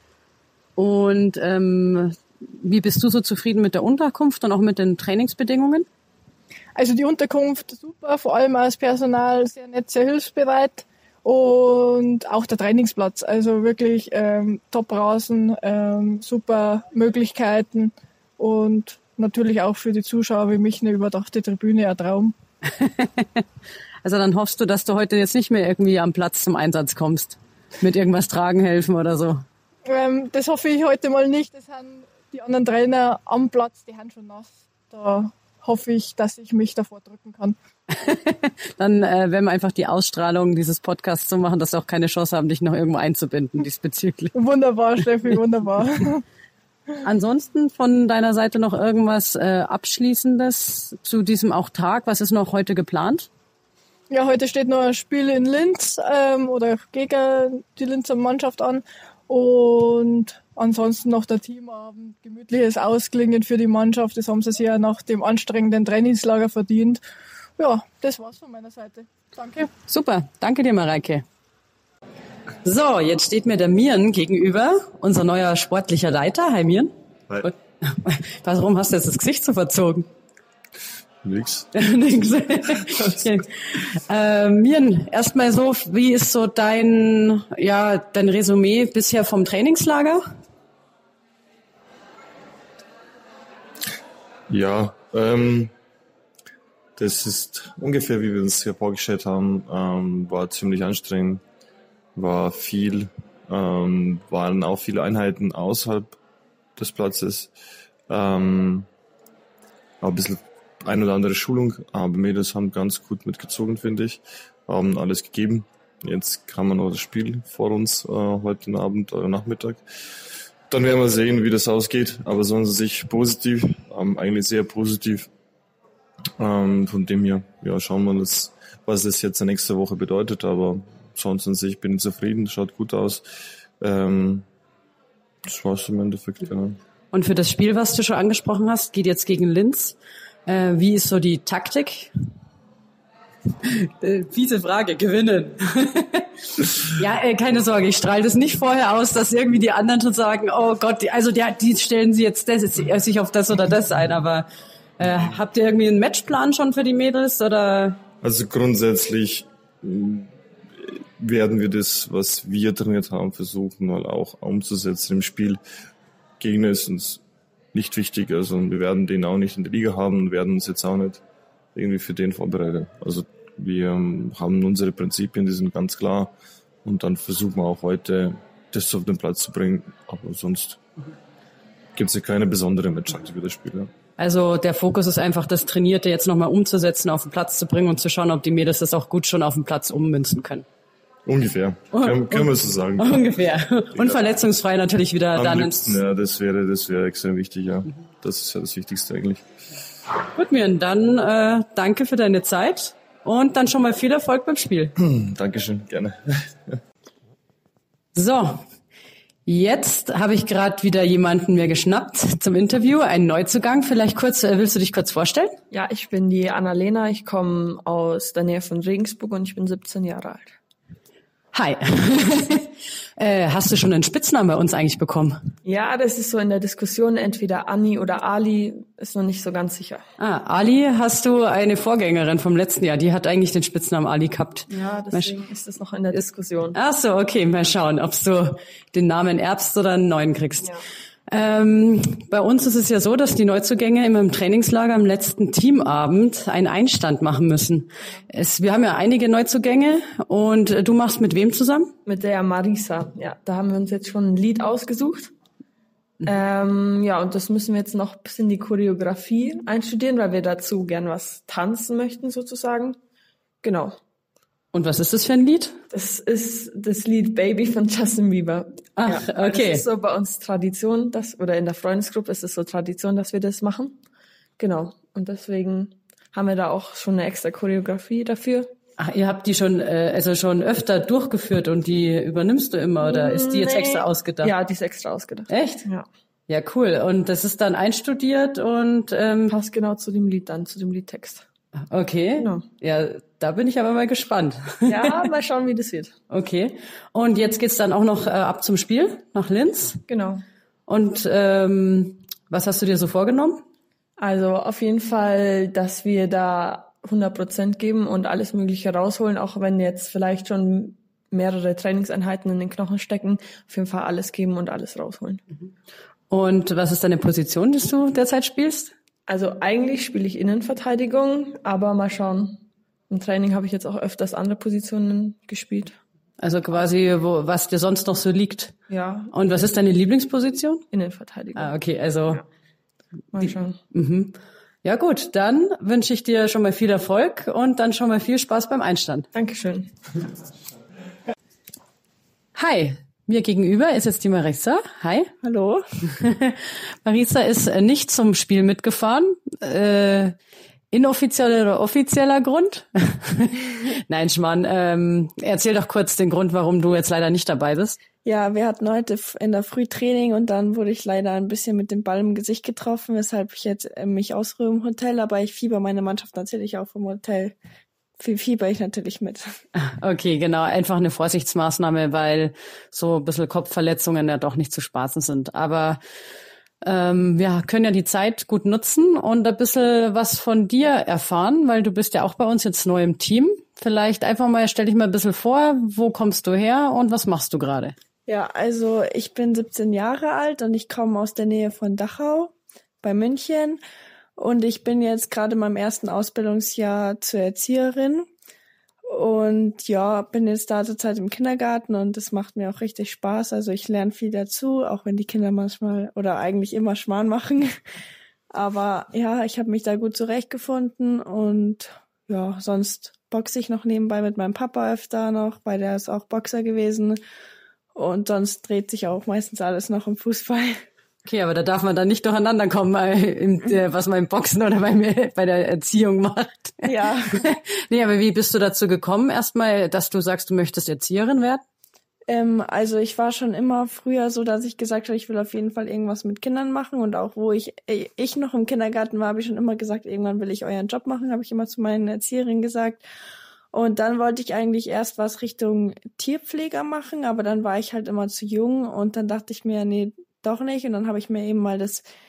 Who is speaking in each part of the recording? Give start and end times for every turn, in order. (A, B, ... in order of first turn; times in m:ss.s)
0:00.8-0:05.9 A
0:06.7-0:22.3 B
0:22.8-0:23.4 A
0:24.0-0:29.4 A
0:29.8-0:37.6 B
0:37.9-0:44.3 A
0:44.3-0:46.2 B
0:47.0-0:53.3 A
0:54.1-1:07.0 B
1:07.6-1:09.7 B
1:09.9-1:11.2 A
1:12.6-1:20.1 A
1:21.2-1:21.7 C
1:21.7-1:30.2 A
1:34.5-1:35.7 C
1:37.0-1:41.4 C
1:42.1-1:46.2 C
1:46.8-1:47.5 C
1:48.1-1:48.9 C
1:50.0-1:59.8 C
2:00.7-2:05.3 C
2:06.4-2:13.2 C
2:13.8-2:14.4 C
2:15.4-2:16.8 C
2:17.1-2:22.1 A
2:23.6-2:34.4 A
2:35.0-2:38.0 A
2:38.2-2:45.6 C
2:46.4-2:47.2 C
2:47.7-2:51.2 C
2:51.7-2:56.3 C
2:56.8-3:00.8 C
3:02.0-3:03.9 C
3:04.2-3:10.6 A
3:11.2-3:13.2 C
3:11.9-3:16.0 A
3:13.9-3:14.2 C
3:15.3-3:19.4 C
3:20.3-3:24.9 A
3:25.0-3:26.2 C
3:28.1-3:28.6 A
3:29.4-3:35.5 A
3:35.7-3:40.5 D
3:41.5-3:45.4 A
3:45.6-3:50.0 D
3:50.2-3:55.4 A
3:54.7-3:56.8 D
3:56.7-4:00.7 A
4:01.3-4:11.9 A
4:12.0-4:15.3 D
4:16.2-4:23.0 D
4:23.6-4:23.9 D
4:24.7-4:25.8 A
4:25.9-4:34.0 D
4:29.0-4:29.8 A
4:34.6-4:38.7 D
4:39.0-4:44.5 A
4:43.0-4:46.1 D
4:45.5-4:45.8 A
4:46.5-4:49.6 A
4:49.5-4:51.4 D
4:51.9-4:55.2 A
4:52.4-4:52.6 D
4:54.8-4:56.1 D
4:56.3-5:00.0 A
5:00.1-5:00.4 D
5:00.9-5:03.6 A
5:04.2-5:15.4 D
5:16.3-5:18.9 A
5:19.3-5:22.6 D
5:23.1-5:26.0 D
5:26.4-5:28.7 A
5:28.9-5:29.3 D
5:29.3-5:30.8 A
5:30.9-5:31.8 D
5:31.5-5:32.4 A
5:33.3-5:33.8 D
5:33.9-5:39.3 A
5:39.3-5:39.9 D
5:42.5-5:45.3 A
5:45.4-5:45.8 E
5:46.2-5:50.3 A
5:50.9-5:58.0 A
5:58.2-6:07.5 E
6:08.2-6:09.4 E
6:10.0-6:16.0 A
6:16.8-6:27.9 A
6:28.3-6:33.8 E
6:34.4-6:38.2 E
6:39.1-6:47.7 E
6:48.5-6:57.2 E
6:57.9-7:00.8 E
7:01.2-7:06.9 A
7:06.8-7:07.4 E
7:07.4-7:11.6 A
7:12.3-7:23.0 E
7:23.7-7:32.0 E